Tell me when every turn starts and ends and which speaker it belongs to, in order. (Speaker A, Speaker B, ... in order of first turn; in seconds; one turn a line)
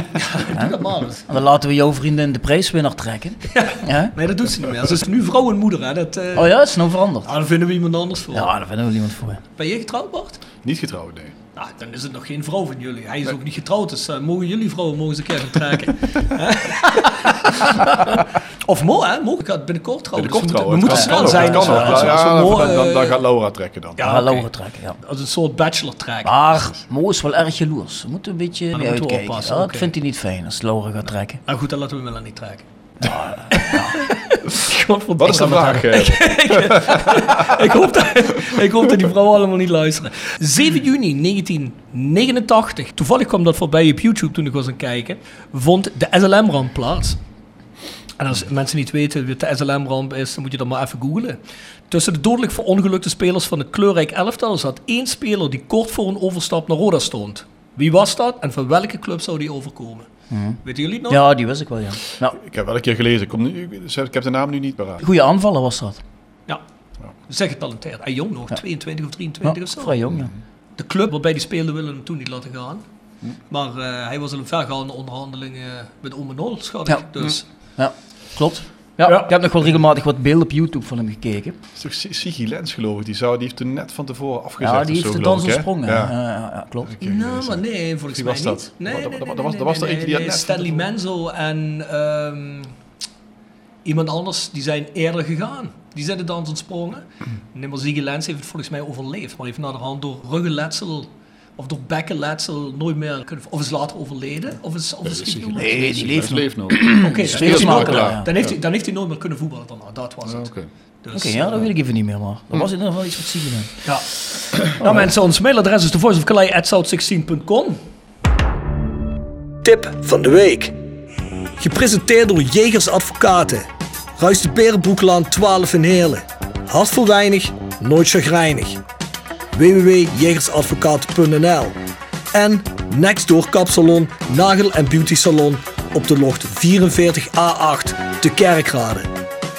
Speaker A: 0.1-1.2
Speaker B: 0.5-4.1
Speaker A: 3.5-6.5
Speaker B: 6.3-7.3
Speaker A: 7.2-8.5
Speaker B: 8.3-9.4
Speaker A: 9.6-10.4
Speaker C: 10.6-11.3
Speaker A: 11.6-23.2
Speaker C: 20.1-24.1
Speaker B: 20.9-22.4
Speaker A: 24.0-24.5
Speaker B: 24.0-25.0
Speaker A: 25.0-26.3
Speaker B: 26.2-31.4
Speaker A: 28.7-29.9
Speaker A: 31.4-32.6
Speaker B: 33.0-33.9
Speaker A: 33.5-47.2
Speaker C: 35.2-37.5
Speaker A: 48.2-51.4
Speaker A: 51.9-60.1
Speaker B: 60.3-62.4
Speaker A: 60.6-61.2
Speaker C: 62.4-65.0
Speaker B: 65.0-66.0
Speaker A: 67.3-70.0
Speaker B: 69.4-70.3
Speaker A: 70.8-72.8
Speaker A: 73.5-77.4
Speaker B: 77.8-81.5
Speaker C: 81.8-86.1
Speaker B: 84.6-87.2
Speaker C: 86.8-87.6
Speaker A: 87.0-92.7
Speaker C: 88.1-90.8
Speaker A: 93.8-106.2
Speaker C: 105.0-108.5
Speaker B: 105.5-108.3
Speaker A: 107.0-110.5
Speaker C: 110.2-110.7
Speaker A: 111.0-111.6
Speaker B: 111.1-113.7
Speaker C: 114.6-114.9
Speaker A: 114.7-117.8
Speaker A: 119.6-120.7
Speaker A: 121.6-123.6
Speaker A: 124.2-128.8
Speaker A: 129.5-131.7
Speaker A: 132.3-139.1